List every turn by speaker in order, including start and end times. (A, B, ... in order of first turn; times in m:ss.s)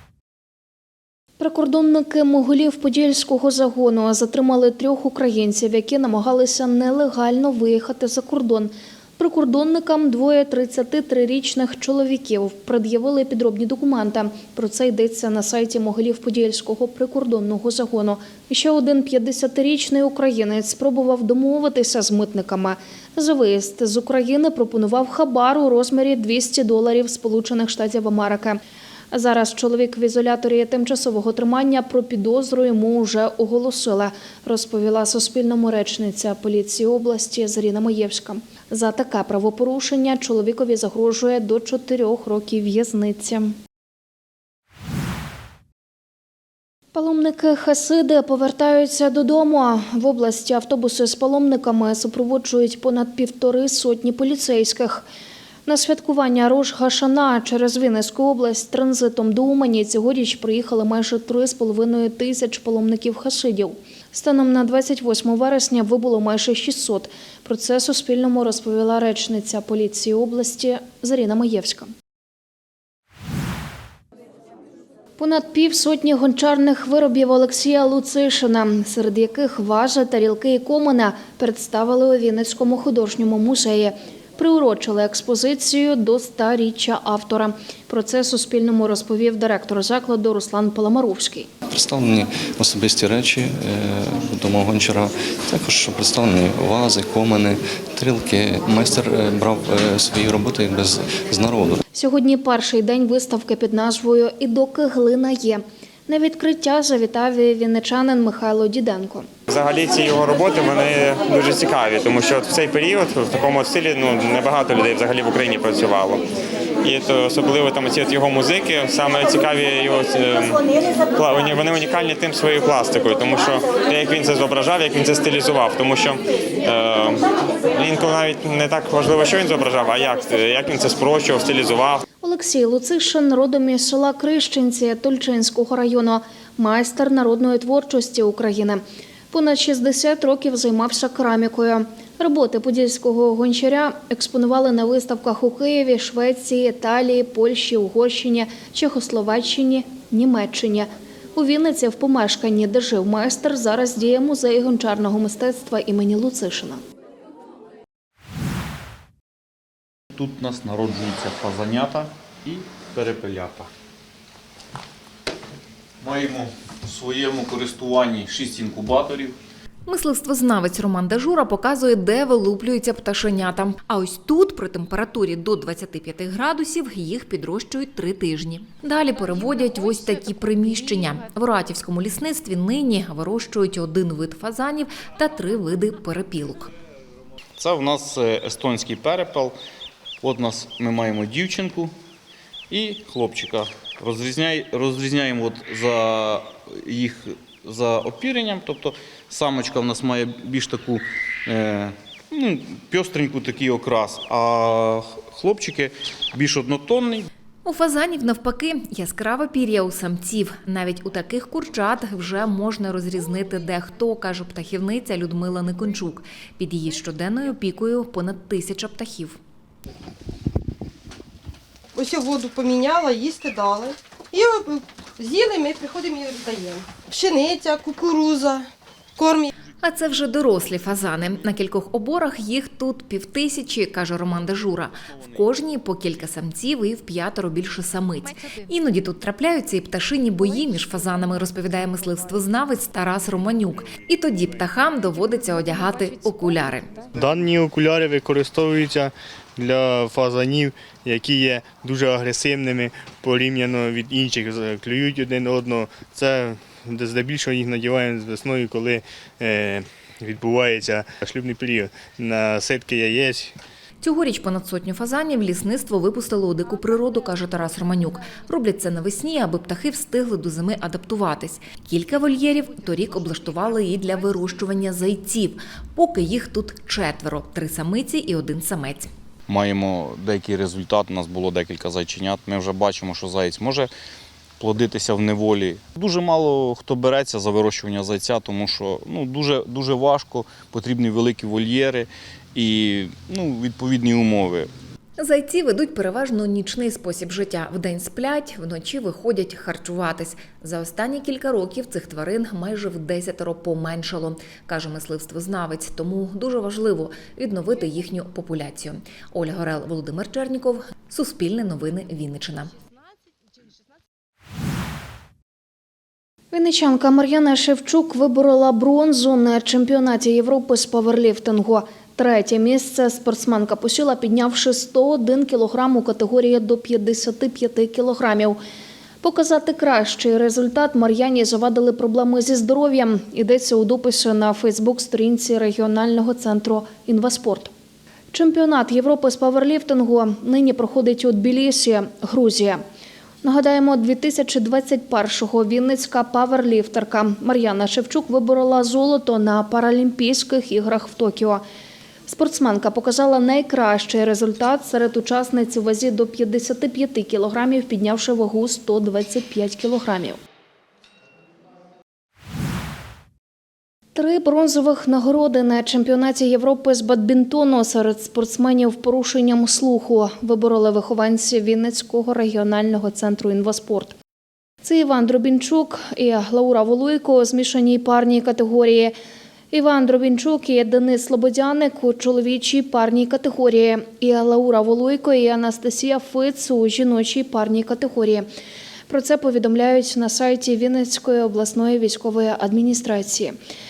0:01.4-0:28.6 A
0:29.1-0:43.5 A
0:46.9-0:55.0 A
0:55.6-1:11.9 A
1:15.2-1:31.5 A
1:31.7-1:41.8 B
1:41.9-1:49.3 A
1:49.5-1:56.2 C
1:56.8-2:12.0 C
2:12.2-2:36.8 A
2:40.1-2:43.7 D
2:46.0-2:49.4 D
2:49.9-3:06.7 E
3:07.6-3:09.6 D
3:10.2-3:11.9 D
3:12.7-3:27.3 D
3:27.6-3:39.4 E
3:41.9-3:48.6 F
3:49.2-3:49.5 F
3:49.8-4:06.9 E
4:07.2-4:23.5 G
4:24.0-4:39.1 E
4:39.5-4:43.9 D
4:44.6-4:54.7 D
4:55.2-5:12.7 E
5:16.5-5:28.6 A
5:29.2-5:37.7 A
5:38.3-5:42.8 A
5:43.4-5:51.6 A
5:52.3-6:00.4 A
6:04.1-6:14.1 A
6:14.8-6:19.1 A
6:19.7-6:28.4 A
6:29.1-6:33.6 A